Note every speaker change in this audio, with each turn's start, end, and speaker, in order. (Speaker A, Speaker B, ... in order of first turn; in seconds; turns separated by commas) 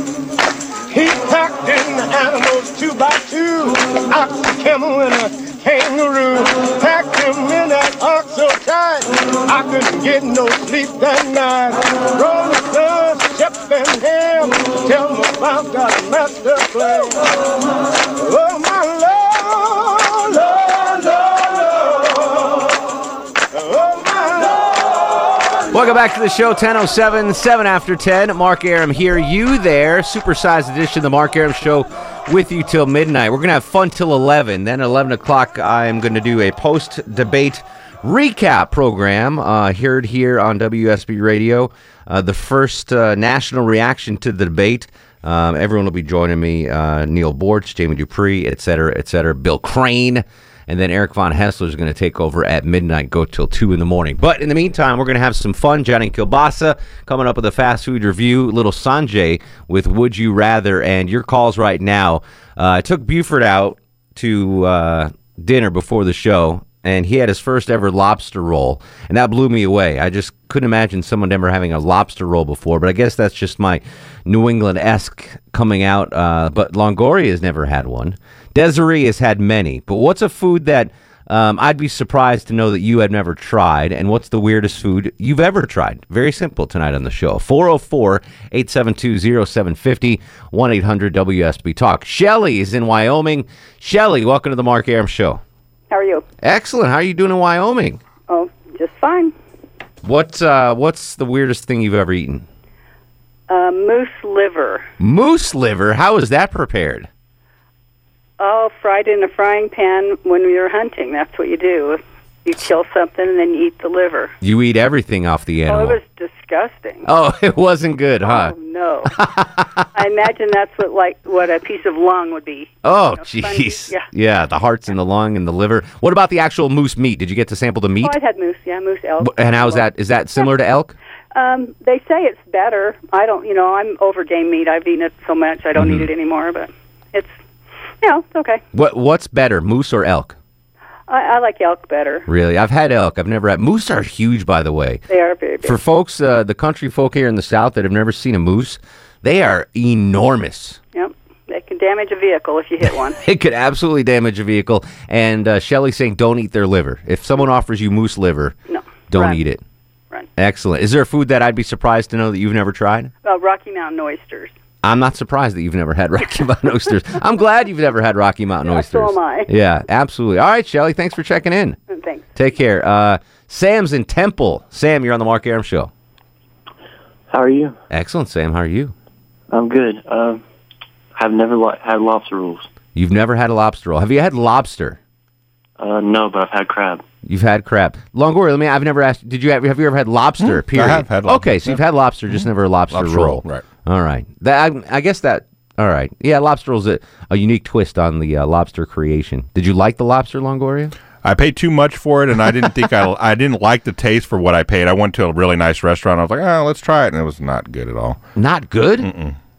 Speaker A: 0.9-22.7, Speaker A: 23.5-25.2, Speaker B: 25.7-95.4, Speaker C: 95.9-96.2, Speaker B: 96.4-98.0, Speaker C: 98.3-99.3, Speaker B: 100.0-102.5, Speaker C: 103.5-104.9, Speaker B: 105.0-107.1, Speaker C: 108.4-114.3, Speaker B: 114.4-116.0, Speaker C: 115.7-117.1, Speaker B: 117.0-118.5, Speaker C: 118.2-119.2, Speaker B: 119.1-119.8, Speaker C: 119.9-124.1, Speaker B: 122.8-128.2, Speaker C: 128.0-129.9, Speaker B: 129.2-131.0, Speaker C: 131.3-137.4, Speaker B: 135.8-136.1, Speaker C: 138.0-138.6, Speaker B: 138.7-140.3, Speaker C: 141.1-142.3, Speaker B: 142.3-145.0, Speaker C: 145.1-145.8, Speaker B: 145.6-150.8, Speaker C: 150.9-153.2, Speaker B: 153.2-158.6, Speaker C: 158.7-159.4, Speaker B: 159.1-159.6, Speaker B: 160.4-163.1, Speaker C: 163.2-164.5, Speaker B: 164.8-171.8, Speaker C: 168.7-169.5, Speaker C: 171.9-172.3, Speaker B: 172.3-175.9, Speaker D: 177.3-177.8, Speaker B: 177.9-178.9, Speaker D: 179.5-180.4, Speaker D: 181.2-182.7, Speaker B: 182.9-185.0, Speaker D: 185.8-187.0, Speaker B: 187.2-200.9, Speaker E: 190.4-191.8, Speaker E: 192.4-193.6, Speaker E: 201.2-208.2, Speaker B: 208.4-209.1, Speaker E: 209.0-209.4